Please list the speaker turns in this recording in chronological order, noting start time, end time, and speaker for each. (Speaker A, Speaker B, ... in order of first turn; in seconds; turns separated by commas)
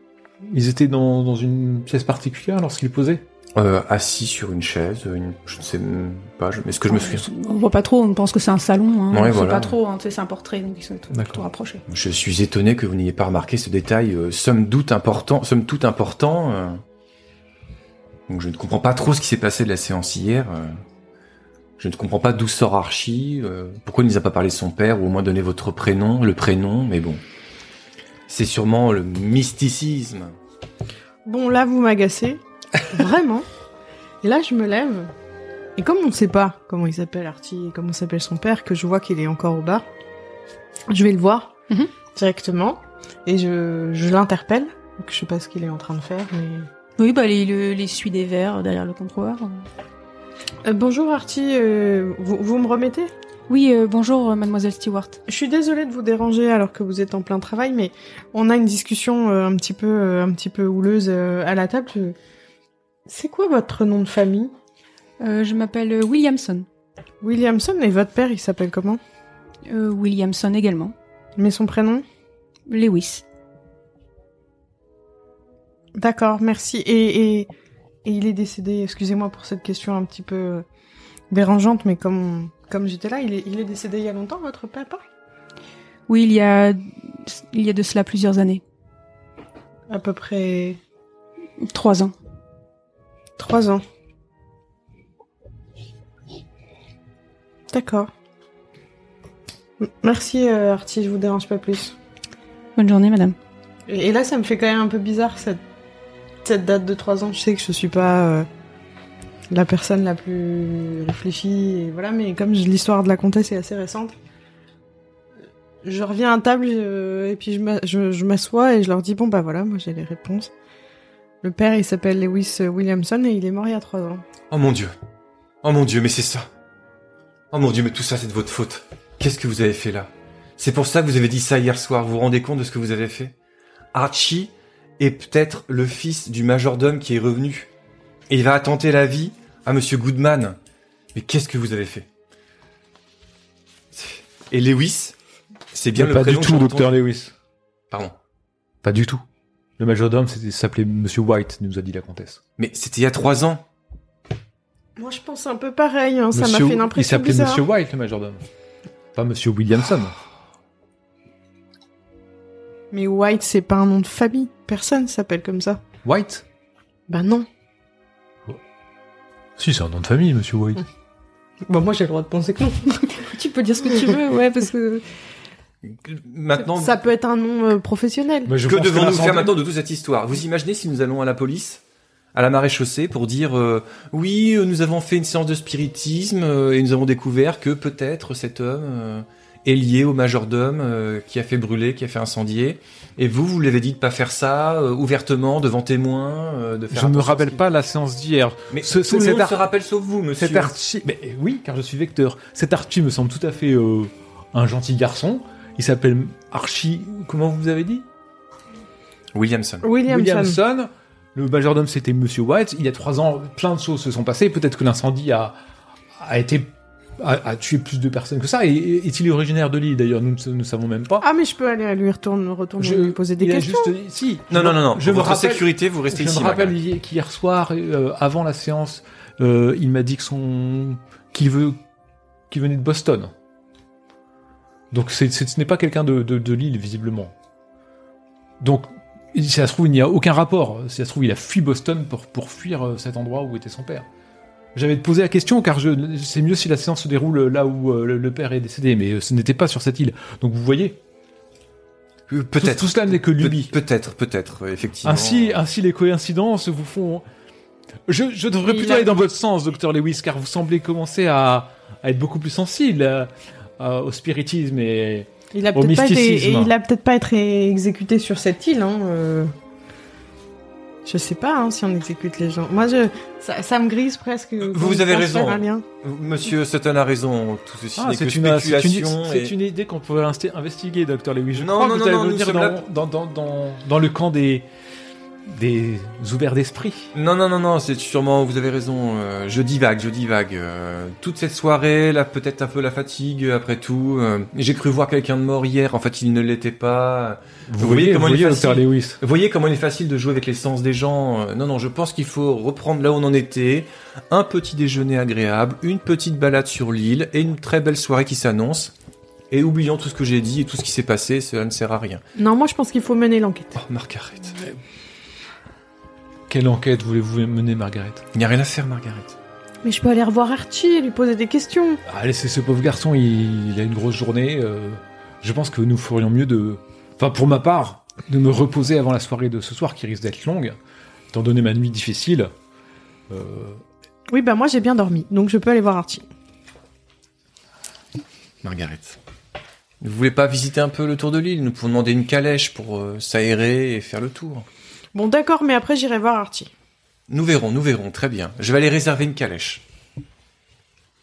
Speaker A: 0.4-3.2, Speaker B: 3.5-7.3, Speaker C: 6.9-11.8, Speaker B: 9.1-9.8, Speaker A: 11.1-11.4, Speaker B: 11.9-16.8, Speaker B: 18.3-20.8, Speaker B: 21.8-27.2, Speaker B: 28.3-30.4, Speaker D: 31.2-33.5, Speaker D: 34.2-35.1, Speaker D: 35.8-39.9, Speaker D: 40.9-41.5, Speaker D: 42.1-46.7, Speaker C: 47.0-49.7, Speaker D: 50.6-53.1, Speaker C: 53.5-55.2, Speaker D: 55.3-62.2, Speaker D: 63.1-64.5, Speaker C: 65.2-66.7, Speaker D: 67.2-69.0, Speaker C: 69.7-71.0, Speaker D: 71.4-72.0, Speaker C: 72.7-73.2, Speaker D: 76.0-77.5, Speaker D: 78.0-80.7, Speaker D: 81.3-85.0, Speaker C: 86.1-88.6, Speaker D: 89.9-90.8, Speaker C: 91.6-92.1, Speaker D: 93.4-93.8, Speaker D: 97.7-98.1, Speaker D: 99.8-102.0, Speaker C: 102.8-103.4, Speaker D: 103.9-105.6, Speaker D: 106.4-108.5, Speaker D: 109.5-114.1, Speaker D: 115.8-120.5, Speaker D: 121.4-124.2, Speaker B: 124.5-125.0, Speaker B: 125.6-126.5, Speaker B: 127.5-133.3, Speaker B: 133.9-137.7, Speaker B: 138.3-140.6, Speaker B: 141.1-142.1, Speaker B: 143.9-145.2, Speaker B: 145.7-146.9, Speaker A: 145.9-147.3, Speaker A: 148.8-149.2, Speaker A: 149.8-152.4, Speaker B: 152.6-153.6, Speaker D: 155.0-157.6, Speaker A: 156.3-158.4, Speaker A: 159.1-160.2, Speaker D: 162.9-165.8, Speaker A: 166.0-166.4, Speaker D: 167.1-167.5, Speaker A: 169.6-170.8, Speaker D: 171.7-175.0, Speaker C: 173.8-174.3, Speaker B: 176.0-177.0, Speaker D: 176.7-178.5, Speaker A: 178.5-179.6, Speaker B: 178.6-181.8, Speaker B: 182.3-197.7, Speaker A: 196.9-199.6, Speaker B: 198.7-200.7, Speaker A: 200.4-208.1, Speaker B: 209.3-209.8, Speaker D: 209.8-210.6, Speaker A: 210.1-215.6, Speaker A: 216.2-221.3, Speaker D: 221.2-223.9, Speaker A: 222.8-231.8, Speaker B: 224.5-226.8, Speaker A: 232.5-233.3, Speaker A: 234.9-237.3, Speaker A: 238.6-244.1, Speaker A: 244.8-251.0, Speaker B: 252.3-255.6, Speaker A: 252.6-253.8, Speaker A: 255.0-257.2, Speaker A: 258.1-266.7, Speaker D: 258.6-259.2, Speaker D: 265.5-269.5, Speaker D: 271.1-275.9, Speaker B: 274.6-279.5, Speaker A: 278.0-284.7, Speaker B: 281.6-282.8, Speaker A: 285.5-287.1, Speaker B: 287.1-308.9, Speaker A: 297.7-299.2, Speaker B: 309.5-312.2, Speaker D: 312.4-313.8, Speaker B: 313.8-314.6, Speaker A: 316.5-318.3, Speaker B: 318.3-319.4, Speaker D: 319.8-322.0, Speaker A: 322.1-330.8, Speaker A: 331.3-332.5, Speaker A: 333.3-333.8, Speaker D: 334.3-336.2, Speaker B: 338.6-339.2, Speaker B: 340.0-344.7, Speaker D: 345.1-346.7, Speaker B: 347.3-349.8